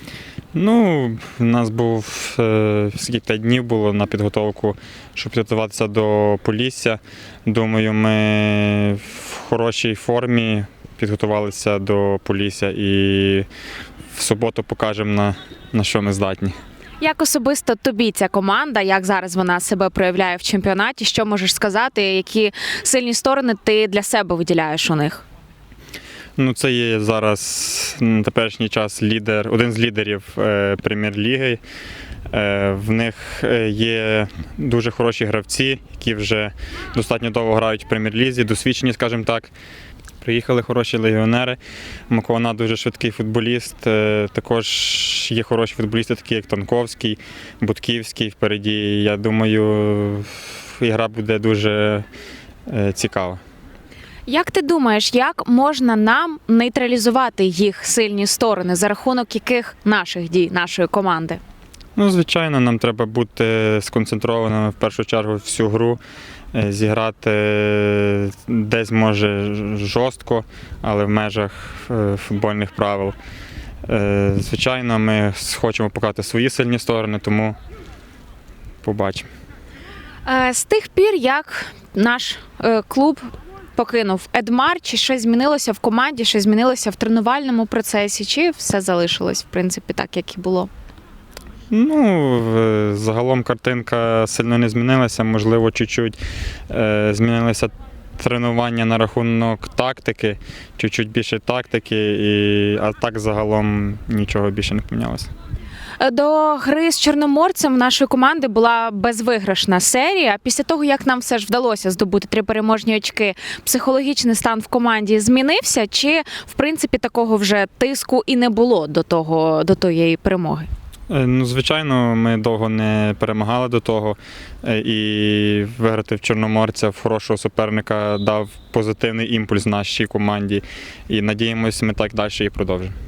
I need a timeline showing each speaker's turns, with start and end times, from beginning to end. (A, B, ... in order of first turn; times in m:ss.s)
0:00.5-0:13.5 A
0:14.1-0:16.5 A
0:17.0-0:25.2 B
0:26.4-0:31.6 A
0:32.3-0:39.5 A
0:40.2-0:41.6 A
0:42.1-0:52.0 A
0:52.7-0:53.4 A
0:54.3-1:01.4 B
1:02.0-1:06.0 A
1:06.5-1:13.2 A
1:13.8-1:17.5 A
1:18.8-1:19.3 A
1:20.2-1:30.7 B
1:31.7-1:36.2 A
1:36.7-1:45.3 A
1:46.0-2:00.7 B
2:01.1-2:12.9 A